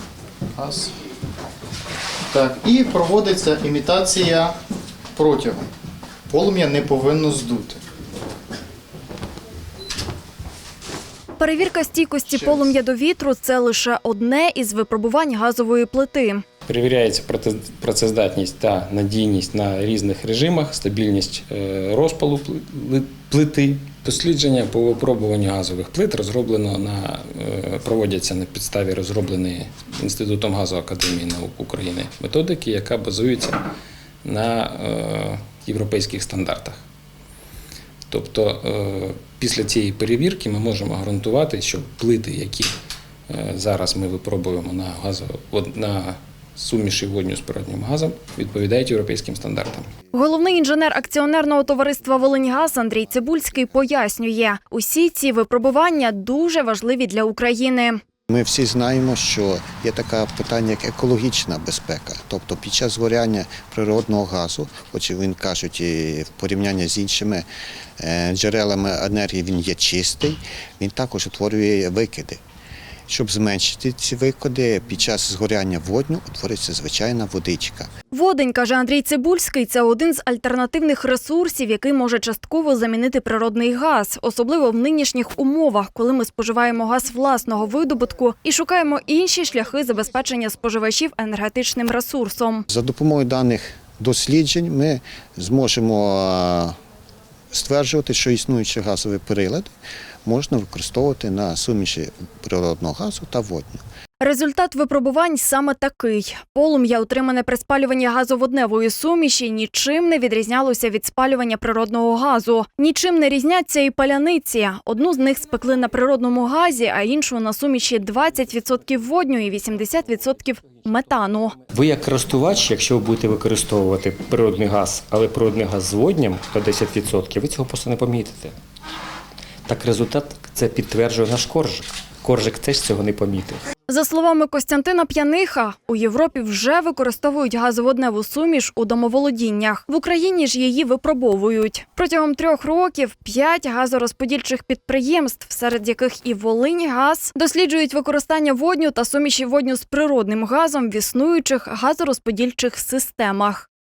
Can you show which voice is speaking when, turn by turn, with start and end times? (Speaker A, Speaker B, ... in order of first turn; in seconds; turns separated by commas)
Speaker A: 0.6-0.9, Speaker A: 2.3-4.6, Speaker A: 5.2-5.7, Speaker A: 6.3-7.8, Speaker B: 11.4-16.4, Speaker C: 16.7-33.6, Speaker C: 34.2-36.8, Speaker C: 38.1-42.7, Speaker C: 43.3-49.9, Speaker B: 50.1-58.0, Speaker D: 58.3-67.5, Speaker D: 68.0-72.4, Speaker D: 73.1-77.9, Speaker B: 78.1-92.7, Speaker D: 92.7-96.7, Speaker D: 97.5-99.7, Speaker D: 100.2-103.8, Speaker B: 104.2-121.6, Speaker E: 121.6-128.6, Speaker E: 129.7-133.6, Speaker B: 133.9-153.7